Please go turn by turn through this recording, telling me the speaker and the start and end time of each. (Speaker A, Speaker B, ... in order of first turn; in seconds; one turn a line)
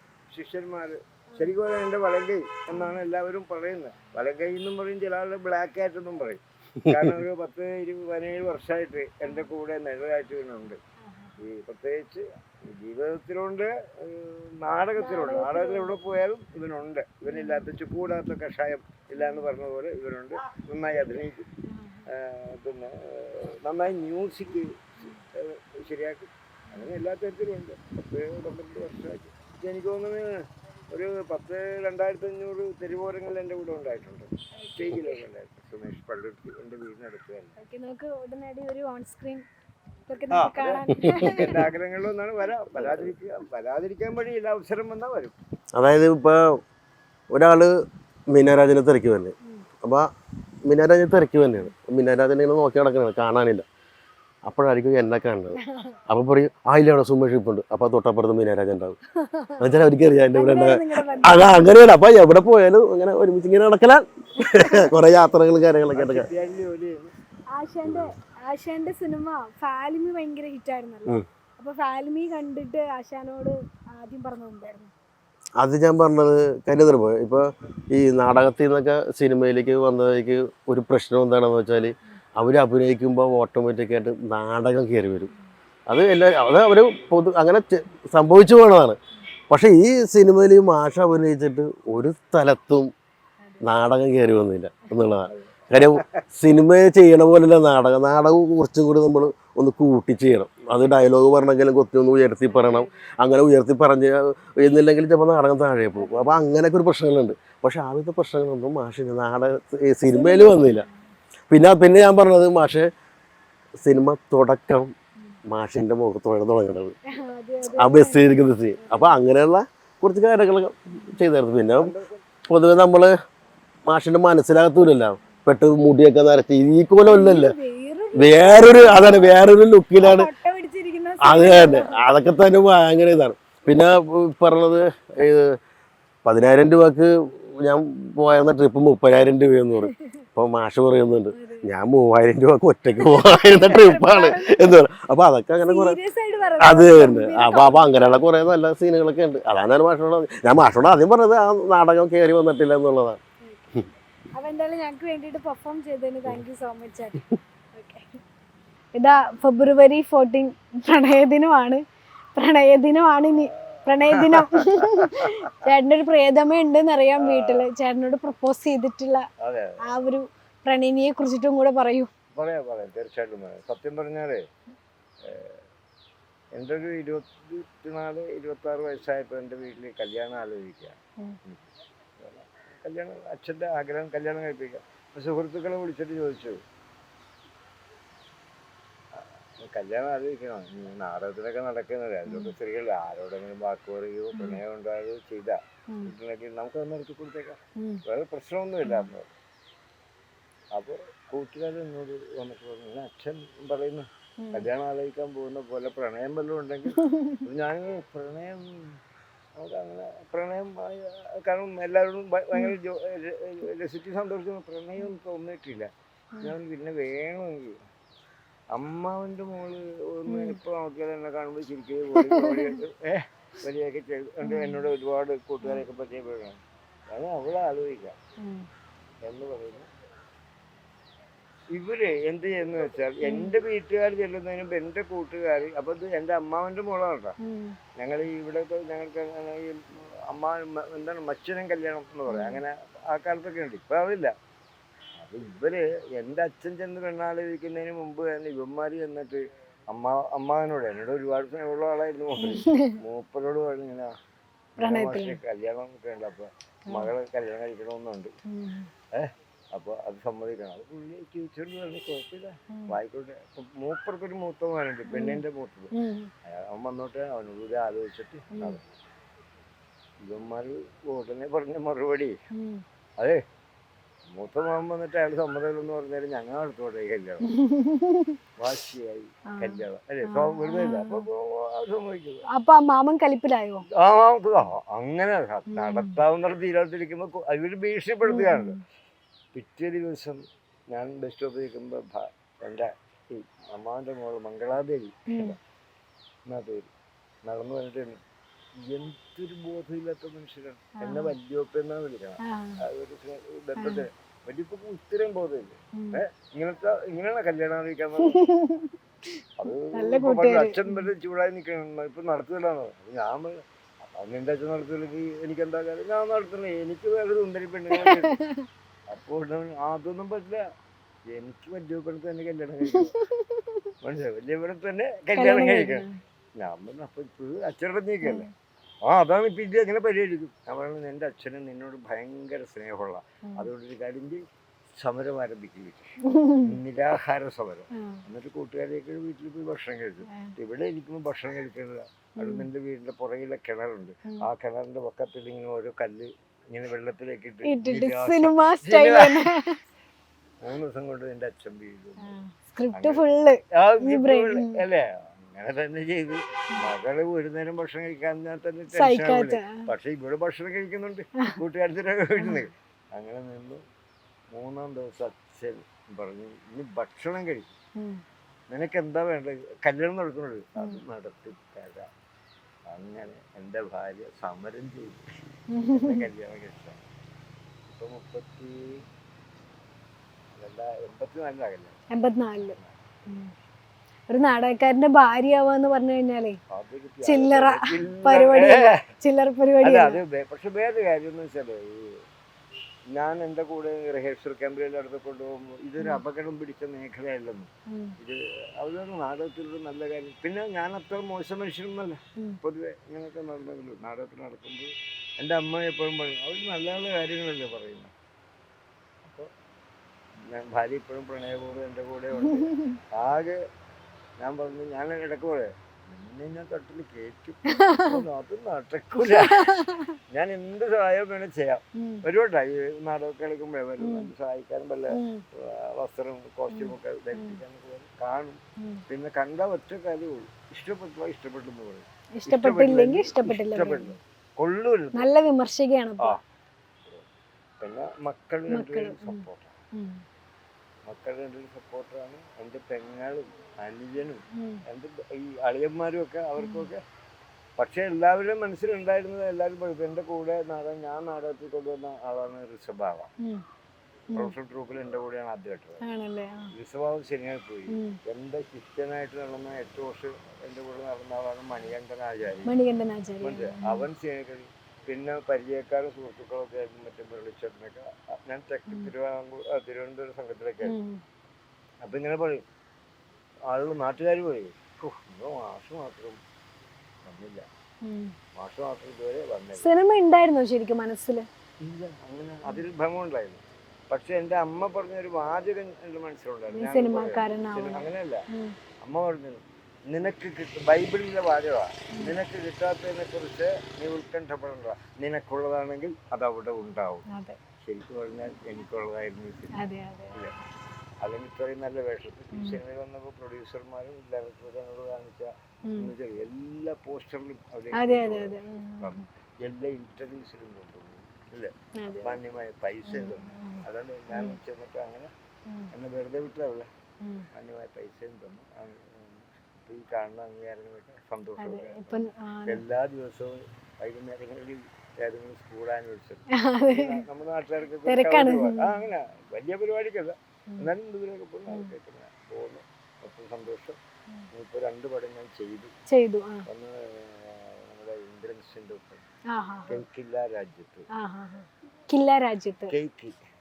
Speaker A: 0.3-10.8
Speaker B: 6.8-7.1
Speaker C: 11.0-11.4
Speaker A: 11.4-21.5
Speaker C: 15.0-15.9
Speaker C: 17.3-17.7
Speaker C: 19.2-19.5
Speaker C: 21.6-22.1
Speaker A: 22.1-37.6
Speaker C: 34.6-35.2
Speaker C: 37.6-39.5
Speaker C: 40.1-41.7
Speaker A: 40.3-45.4
Speaker B: 41.1-41.5
Speaker B: 42.8-43.1
Speaker B: 45.8-46.6
Speaker B: 47.3-47.7
Speaker B: 48.3-50.1
Speaker B: 50.6-53.6
Speaker B: 54.4-59.0
Speaker C: 55.6-56.0
Speaker C: 59.2-59.7
Speaker B: 59.6-66.3
Speaker C: 60.3-61.6
Speaker C: 64.4-64.9
Speaker A: 65.9-67.1
Speaker C: 67.5-74.9
Speaker B: 75.6-85.3
Speaker B: 85.9-89.0
Speaker B: 89.5-92.9
Speaker B: 93.6-110.8
Speaker A: 95.3-96.2
Speaker C: 102.4-103.0
Speaker C: 106.0-106.2
Speaker C: 110.1-111.1
Speaker B: 111.5-112.9
Speaker B: 113.8-114.9
Speaker B: 115.5-117.0
Speaker C: 117.1-119.2
Speaker B: 117.7-121.9
Speaker A: 121.8-122.2
Speaker B: 122.5-123.1
Speaker B: 123.9-127.5
Speaker C: 127.0-129.3
Speaker B: 128.2-130.3
Speaker C: 130.0-132.0
Speaker B: 131.2-135.6
Speaker B: 136.2-146.0
Speaker C: 141.3-141.7
Speaker C: 143.0-144.8
Speaker C: 145.7-148.2
Speaker B: 146.6-153.2
Speaker C: 153.4-153.7
Speaker C: 154.3-158.2
Speaker C: 158.9-161.8
Speaker C: 162.3-169.3
Speaker A: 163.4-165.6
Speaker A: 167.2-167.7
Speaker A: 169.4-169.8
Speaker C: 169.8-172.1
Speaker A: 172.3-174.4
Speaker A: 175.2-175.6
Speaker A: 176.6-186.6
Speaker A: 189.2-199.3
Speaker C: 192.2-192.5
Speaker C: 194.3-194.6
Speaker C: 197.8-198.0
Speaker A: 200.7-209.0
Speaker C: 204.4-204.7
Speaker C: 206.9-207.4
Speaker A: 209.6-215.9
Speaker A: 216.4-217.8
Speaker A: 218.7-226.6
Speaker C: 220.3-220.6
Speaker C: 222.1-222.8
Speaker C: 224.4-224.9
Speaker A: 227.1-228.2
Speaker C: 228.4-228.7
Speaker A: 229.2-229.9
Speaker A: 231.7-237.4
Speaker C: 233.2-233.5
Speaker C: 237.4-237.8
Speaker A: 237.9-244.3
Speaker C: 242.3-242.6
Speaker A: 245.2-254.1
Speaker C: 252.4-253.0
Speaker A: 254.8-258.3
Speaker C: 254.8-255.4
Speaker C: 258.5-258.9
Speaker A: 259.1-265.9
Speaker C: 265.1-265.4
Speaker C: 265.9-266.3
Speaker A: 266.4-269.0
Speaker A: 270.2-272.4
Speaker C: 272.5-272.8
Speaker A: 274.3-277.5
Speaker C: 277.5-278.4
Speaker A: 278.6-282.5
Speaker C: 279.5-281.2
Speaker C: 282.5-283.9
Speaker A: 283.9-288.8
Speaker C: 285.7-286.2
Speaker C: 288.2-288.8
Speaker A: 289.5-295.6
Speaker C: 295.3-295.5
Speaker A: 296.5-296.9
Speaker A: 297.4-298.2
Speaker A: 298.8-308.4
Speaker C: 301.0-301.3
Speaker C: 302.4-302.8
Speaker C: 303.8-304.0
Speaker C: 305.9-306.2
Speaker C: 308.2-308.9
Speaker A: 309.6-318.3
Speaker C: 309.8-311.1
Speaker C: 317.9-318.7
Speaker A: 319.1-320.6
Speaker A: 321.3-323.1
Speaker C: 322.9-323.8
Speaker A: 324.0-326.0
Speaker C: 325.4-326.2
Speaker A: 326.6-328.5
Speaker C: 328.2-328.5
Speaker A: 329.0-334.4
Speaker A: 334.9-349.5
Speaker C: 336.2-336.7
Speaker C: 337.9-338.2
Speaker C: 340.3-340.5
Speaker C: 342.4-342.7
Speaker C: 347.6-349.8
Speaker A: 350.6-352.4
Speaker C: 352.2-354.8
Speaker A: 352.9-363.8
Speaker C: 358.9-359.9
Speaker A: 364.5-367.7
Speaker C: 367.9-368.2
Speaker A: 368.7-372.1
Speaker A: 372.9-375.4
Speaker C: 375.7-376.3
Speaker A: 375.9-377.0
Speaker A: 377.9-379.0
Speaker A: 380.5-382.0
Speaker C: 382.1-382.8
Speaker A: 382.6-383.4
Speaker C: 384.3-386.6
Speaker A: 386.7-389.1
Speaker C: 387.2-390.2
Speaker A: 389.8-392.2
Speaker A: 393.1-408.1
Speaker C: 397.9-398.2
Speaker A: 409.2-409.5
Speaker A: 410.5-413.6
Speaker C: 412.4-413.0
Speaker A: 414.4-435.3
Speaker C: 417.7-418.2
Speaker C: 419.2-420.2
Speaker C: 421.9-422.2
Speaker C: 424.0-424.3
Speaker C: 425.1-425.4
Speaker C: 426.7-427.6
Speaker C: 428.8-429.0
Speaker C: 432.4-434.2
Speaker C: 435.1-436.4
Speaker A: 437.8-439.8
Speaker C: 438.7-440.2
Speaker A: 441.1-447.0
Speaker C: 444.5-444.8
Speaker C: 446.6-446.9
Speaker A: 447.8-453.3
Speaker A: 454.3-456.0
Speaker C: 456.0-456.7
Speaker A: 456.7-462.7
Speaker C: 457.9-458.2
Speaker C: 462.6-464.1
Speaker A: 463.4-470.9
Speaker C: 470.8-471.2
Speaker A: 472.0-472.6
Speaker A: 473.7-476.4
Speaker A: 477.2-477.7
Speaker C: 478.0-478.4
Speaker A: 478.6-479.9
Speaker C: 479.8-481.5
Speaker A: 481.8-488.4
Speaker C: 486.7-488.7
Speaker A: 489.0-497.2
Speaker C: 497.3-497.6
Speaker A: 497.8-500.5
Speaker C: 499.8-500.4
Speaker A: 501.2-515.3
Speaker C: 502.5-502.8
Speaker C: 505.9-506.1
Speaker C: 507.9-509.2
Speaker C: 512.0-512.4
Speaker C: 513.0-514.6
Speaker A: 515.9-516.9
Speaker C: 517.2-517.5
Speaker A: 517.5-534.0
Speaker C: 521.6-522.8
Speaker C: 526.5-527.2
Speaker C: 528.0-529.0
Speaker A: 534.5-535.9
Speaker C: 536.1-536.7
Speaker A: 536.6-539.3
Speaker C: 539.5-540.0
Speaker A: 539.9-541.1
Speaker C: 541.1-542.9
Speaker A: 542.9-543.4